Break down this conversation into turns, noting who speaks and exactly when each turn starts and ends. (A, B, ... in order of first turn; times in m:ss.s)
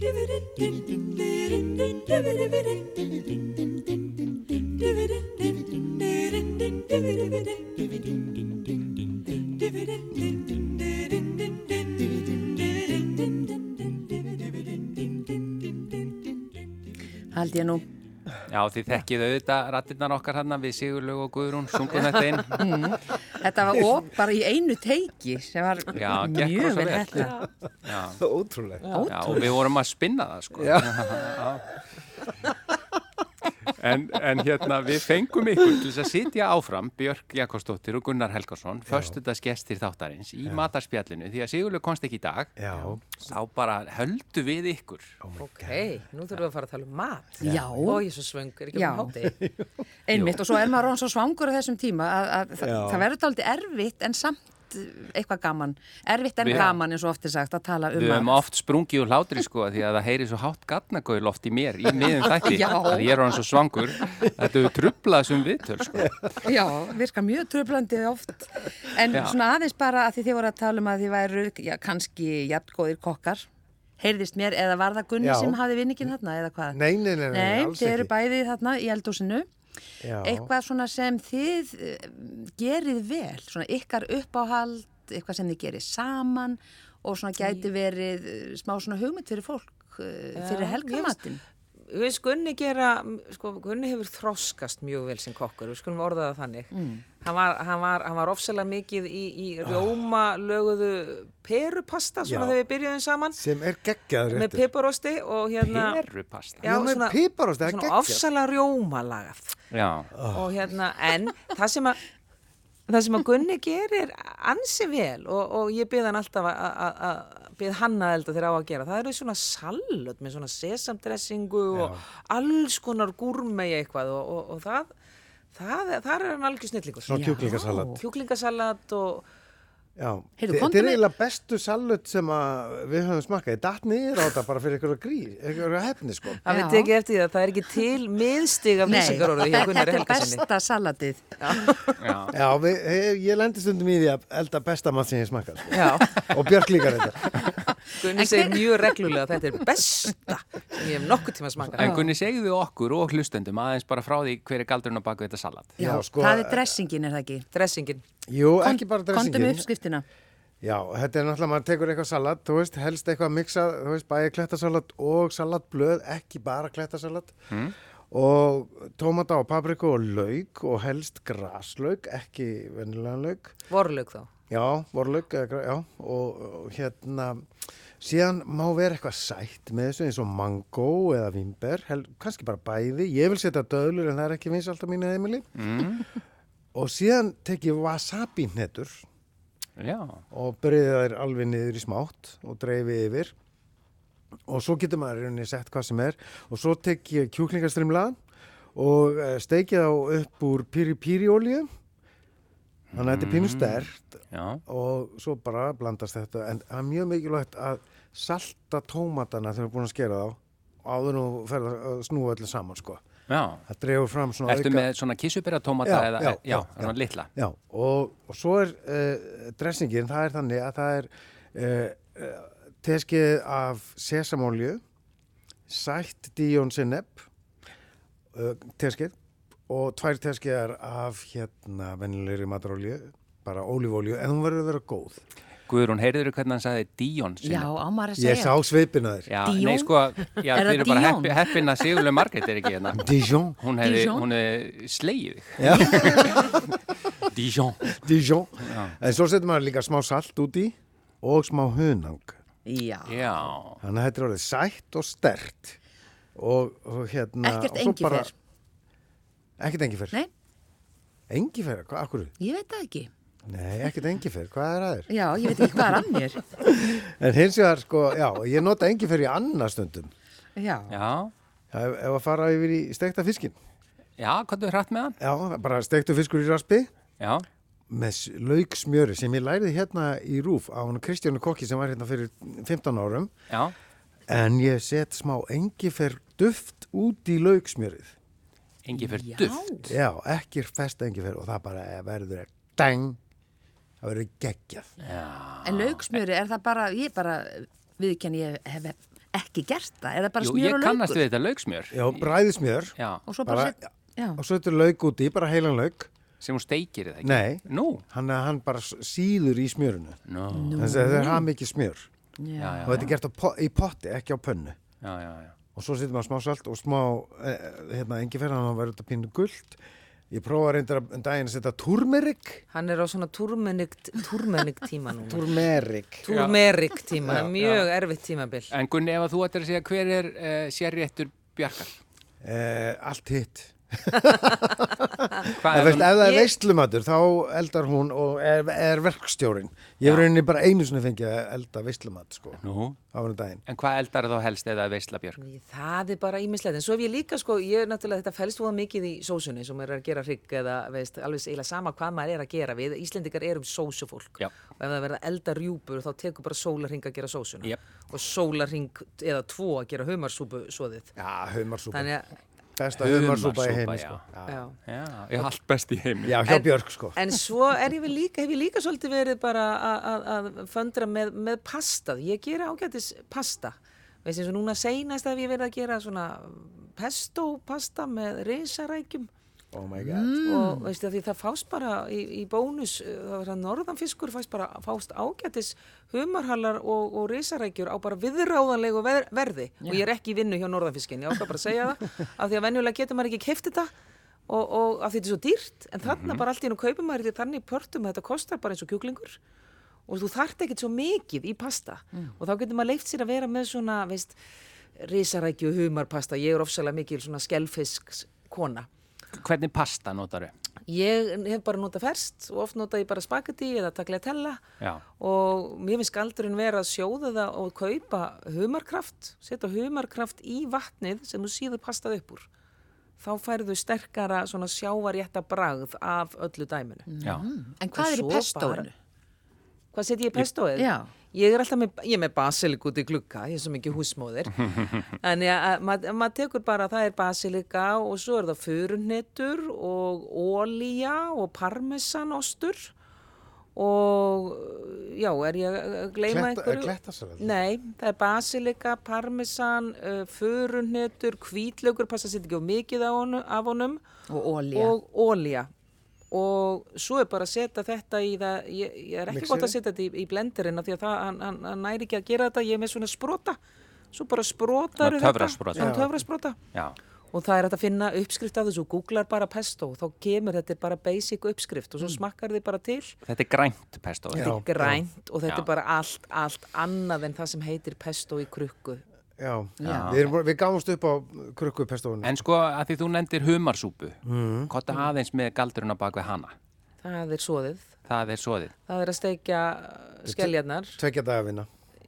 0:01.9-0:02.6 A
0:17.3-0:17.8 B
0:18.5-0:22.8 C
0:22.3-0:22.6 A
0:22.5-0:27.3 B
0:25.9-0:27.3 C
0:27.1-0:27.5 A
0:27.8-0:29.5 D
0:27.8-0:28.2 C
0:28.8-0:29.1 A
0:28.9-0:29.5 B
0:29.1-0:31.7 C
0:30.5-0:31.2 D
0:33.6-0:45.2 C
0:38.9-0:39.2 D
0:42.6-0:43.2 D
0:45.2-0:45.9 D
0:45.4-0:49.4 A
0:47.4-0:48.0 D
0:47.4-0:48.0 B
0:48.7-0:49.1 B
0:49.2-0:49.7 D
0:50.1-0:58.4 B
0:50.1-0:50.4 C
0:52.6-0:53.1 D
0:56.4-0:56.7 C
0:57.9-1:06.1 C
1:02.1-1:03.2 B
1:05.9-1:06.5 D
1:06.4-1:13.5 B
1:14.0-1:19.5 B
1:15.2-1:15.6 D
1:16.7-1:18.1 D
1:20.0-1:20.5 D
1:20.2-1:31.4 B
1:30.3-1:31.2 A
1:31.9-1:43.4 A
1:36.7-1:37.0 B
1:39.6-1:39.9 D
1:42.2-1:42.6 D
1:43.3-1:44.6 D
1:44.3-1:46.0 A
1:45.6-1:46.6 C
1:46.6-1:49.5 A
1:46.6-1:48.2 D
1:49.7-1:50.2 C
1:50.1-1:50.5 D
1:50.3-1:52.0 A
1:52.9-2:04.9 A
2:01.7-2:02.0 D
2:05.5-2:07.2 A
2:07.0-2:08.0 D
2:07.1-2:08.0 B
2:08.0-2:09.2 A
2:10.0-2:16.4 D
2:10.4-2:11.0 B
2:16.4-2:20.4 A
2:16.5-2:16.9 B
2:18.8-2:22.0 B
2:21.4-2:21.8 A
2:22.0-2:22.3 C
2:22.3-2:27.6 D
2:25.7-2:26.2 A
2:28.0-2:32.0 A
2:28.1-2:28.7 B
2:31.7-2:35.8 C
2:31.8-2:32.1 B
2:35.8-2:36.7 D
2:35.8-2:37.4 B
2:37.5-2:38.0 A
2:38.3-2:39.7 D
2:38.6-2:40.0 B
2:40.6-2:47.3 D
2:47.5-2:47.7 C
2:48.1-2:53.5 D
2:53.7-2:54.3 A
2:54.5-2:57.4 D
2:58.0-3:05.5 D
3:05.6-3:06.1 C
3:06.7-3:09.0 D
3:09.8-3:10.2 C
3:10.3-3:13.3 D
3:14.5-3:18.2 D
3:18.7-3:21.7 D
3:22.9-3:24.6 C
3:22.9-3:33.0 D
3:33.3-3:33.6 C
3:33.7-3:34.9 D
3:34.4-3:37.3 C
3:35.8-3:44.8 D
3:45.7-3:47.3 D
3:48.3-3:49.1 D
3:49.7-3:55.2 D
3:55.7-3:57.7 C
3:57.4-3:58.6 B
3:58.2-3:59.3 D
3:59.3-4:08.0 C
3:59.4-4:01.8 B
4:02.9-4:03.6 D
4:03.8-4:04.3 B
4:05.6-4:06.6 D
4:07.9-4:12.4 D
4:08.6-4:09.0 C
4:12.6-4:13.3 B
4:13.1-4:13.8 C
4:13.8-4:15.8 D
4:16.3-4:18.3 D
4:17.4-4:18.3 B
4:19.6-4:20.2 D
4:21.3-4:22.3 D
4:22.4-4:23.1 B
4:23.4-4:30.1 D
4:25.1-4:26.4 B
4:30.6-4:31.0 B
4:30.9-4:31.3 C
4:31.7-4:33.5 D
4:34.2-4:35.2 C
4:35.2-4:36.9 D
4:37.2-4:37.4 C
4:37.9-4:43.3 D
4:43.5-4:43.7 C
4:44.3-4:48.1 D
4:48.8-4:49.7 C
4:49.0-4:49.9 B
4:49.8-4:53.2 D
4:54.0-4:54.9 D
4:55.0-4:56.2 C
4:55.6-5:01.2 B
5:00.4-5:02.2 C
5:01.9-5:02.9 D
5:03.0-5:03.2 C
5:03.2-5:04.4 B
5:03.4-5:06.1 D
5:06.4-5:08.0 C
5:07.2-5:10.2 D
5:10.3-5:10.9 C
5:10.5-5:11.4 B
5:10.8-5:12.1 D
5:12.4-5:13.1 B
5:12.6-5:13.1 C
5:12.8-5:14.8 D
5:15.0-5:15.5 C
5:15.7-5:19.8 D
5:20.3-5:22.6 D
5:22.7-5:25.5 A
5:25.3-5:26.2 D
5:26.2-5:28.7 A
5:26.3-5:26.6 C
5:27.2-5:27.5 D
5:27.6-5:27.9 C
5:28.7-5:32.0 C
5:32.4-5:42.6 D
5:35.5-5:36.2 C
5:36.2-5:36.5 A
5:40.0-5:40.3 C
5:42.6-5:43.0 C
5:43.1-5:43.6 D
5:43.7-5:45.4 C
5:45.4-6:01.1 A
6:01.2-6:02.1 D
6:01.9-6:02.3 A
6:02.8-6:04.6 D
6:03.0-6:04.2 C
6:04.5-6:04.8 A
6:04.9-6:06.4 C
6:06.2-6:07.2 D
6:06.4-6:19.3 A
6:19.7-6:20.4 D
6:20.0-6:20.9 B
6:20.4-6:33.9 A
6:34.5-6:39.4 A
6:36.0-6:36.4 C
6:40.1-6:44.4 A
6:45.0-6:48.9 A
6:49.3-6:50.5 C
6:50.9-7:02.5 A
6:54.8-6:55.0 C
7:03.2-7:07.1 A
7:07.1-7:08.9 B
7:07.2-7:07.5 C
7:07.9-7:08.8 A
7:09.9-7:22.9 A
7:10.8-7:11.1 B
7:23.7-7:34.0 A
7:26.3-7:27.6 D
7:34.3-7:35.0 B
7:34.7-7:35.7 A
7:36.3-7:43.6 A
7:39.3-7:39.7 D
7:44.1-7:46.6 A
7:45.0-7:46.1 C
7:45.8-7:46.1 D
7:47.3-7:53.2 A
7:53.2-7:54.6 C
7:54.3-7:59.0 A
7:54.3-7:55.0 D
7:59.4-8:02.4 D
7:59.8-8:00.2 B
7:59.8-8:00.3 C
8:02.2-8:06.5 C
8:04.2-8:04.7 D
8:07.0-8:08.0 A
8:08.0-8:08.7 C
8:08.8-8:10.9 A
8:10.3-8:11.7 D